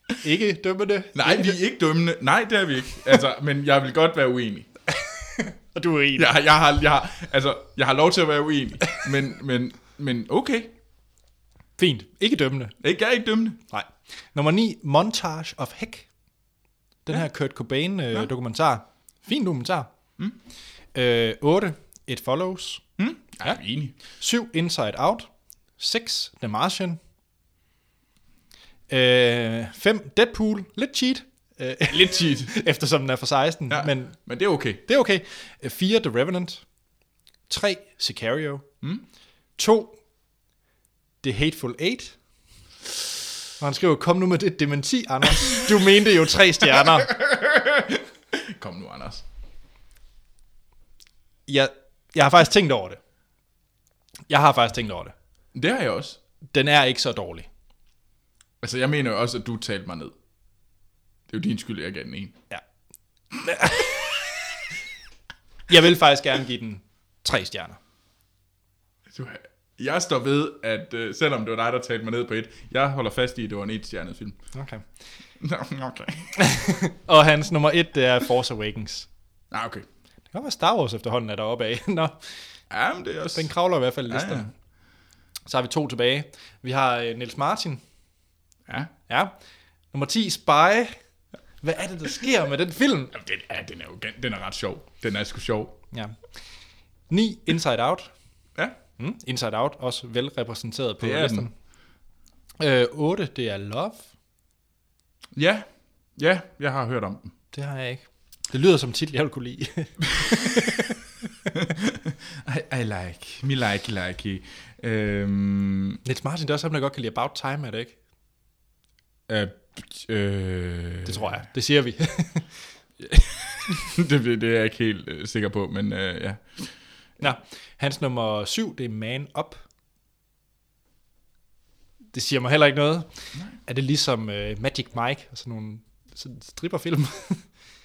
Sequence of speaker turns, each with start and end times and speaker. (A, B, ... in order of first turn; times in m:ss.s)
0:00.2-0:01.6 A
0:01.1-0:04.7 B
0:05.4-0:06.3 A
0:06.2-0:10.7 B
0:11.8-0:12.8 A
0:12.8-0:13.6 B
0:13.7-0:16.1 A
0:17.0-0:19.9 A
0:20.9-0:22.8 A
0:23.0-0:23.9 B
0:23.4-0:27.0 A
0:28.9-0:34.3 A
0:31.9-0:32.5 B
0:33.7-0:34.8 B
0:34.8-0:36.6 A
0:37.5-0:38.7 A
0:39.6-0:40.0 A
0:41.2-0:42.2 A
0:43.6-0:47.1 A
0:46.7-0:49.2 B
0:51.5-0:53.0 A
0:54.3-0:55.1 A
0:55.5-0:56.2 B
0:56.5-0:57.5 A
0:58.6-1:00.1 B
1:01.3-1:02.4 B
1:03.4-1:04.2 A
1:05.7-1:07.8 A
1:09.1-1:14.4 B
1:14.5-1:14.8 A
1:15.4-1:16.4 B
1:16.4-1:19.1 A
1:19.5-1:19.8 B
1:20.3-1:22.2 A
1:22.7-1:23.5 B
1:23.3-1:24.5 A
1:24.0-1:24.5 B
1:25.5-1:27.8 A
1:28.7-1:28.9 B
1:29.1-1:29.3 A
1:29.9-1:31.0 A
1:31.6-1:33.1 A
1:33.1-1:35.8 B
1:35.9-1:36.2 A
1:37.1-1:38.1 A
1:39.0-1:41.5 A
1:41.0-1:41.5 B
1:42.6-1:44.1 A
1:45.3-1:47.3 B
1:47.5-1:50.8 A
1:51.5-1:56.0 B
1:56.0-1:58.0 A
1:59.3-2:01.3 B
2:01.0-2:02.5 A
2:03.0-2:03.3 A
2:03.9-2:06.8 B
2:07.2-2:09.6 A
2:12.1-2:17.4 A